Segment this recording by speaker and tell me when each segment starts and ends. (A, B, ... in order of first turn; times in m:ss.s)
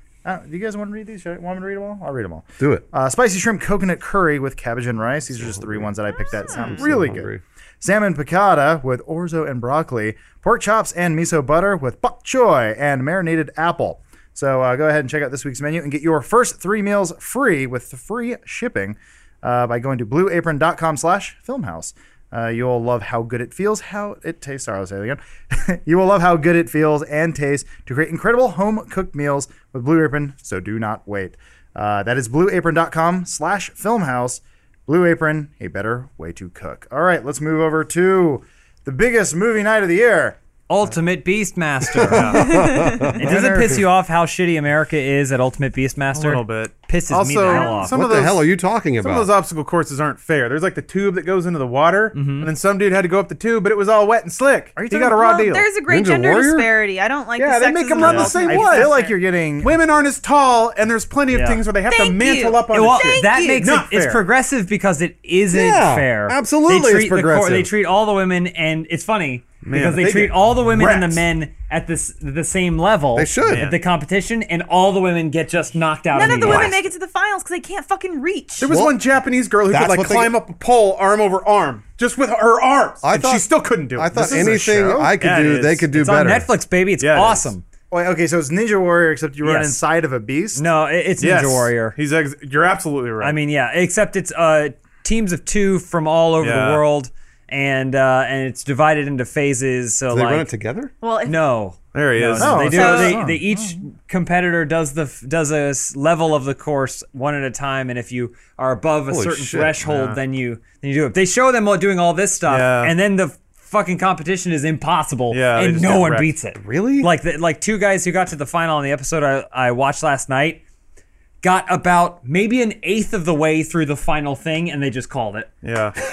0:00.2-0:40.4 A
0:02.6-0:02.8 B
0:05.3-0:05.9 B
0:06.3-0:06.8 C
0:06.5-0:07.4 B
0:40.7-0:47.9 D
0:41.9-0:43.3 B
0:42.0-0:42.6 E
0:42.3-0:43.2 C
0:43.2-0:43.8 A
0:46.1-0:55.7 E
0:47.5-0:47.9 C
0:47.9-0:49.3 B
0:52.1-0:52.5 D
0:54.8-0:55.4 A
0:55.1-0:59.2 C
0:55.9-0:56.7 B
0:57.4-0:58.9 E
0:58.0-0:59.8 A
0:59.6-1:04.2 E
1:01.3-1:01.6 D
1:01.8-1:03.7 C
1:02.7-1:16.8 D
1:05.5-1:07.7 B
1:09.7-1:11.2 E
1:13.1-1:13.7 B
1:13.5-1:13.8 E
1:16.1-1:18.7 C
1:16.4-1:16.7 E
1:18.6-1:25.9 E
1:18.6-1:19.0 B
1:19.7-1:20.4 B
1:23.0-1:26.5 B
1:24.1-1:25.2 A
1:25.9-1:27.6 D
1:27.0-1:27.5 E
1:27.9-1:30.6 A
1:29.4-1:29.8 D
1:30.6-1:32.0 D
1:31.2-1:33.4 E
1:33.2-1:40.5 D
1:36.4-1:36.8 E
1:40.1-1:40.9 B
1:41.0-1:41.4 C
1:41.2-2:00.6 D
1:41.9-1:43.0 E
1:42.4-1:43.8 A
1:42.6-1:43.2 C
1:49.1-1:50.0 B
1:52.5-1:52.9 E
1:55.3-1:56.3 E
1:56.5-1:57.1 B
2:01.4-2:05.5 D
2:05.6-2:06.0 E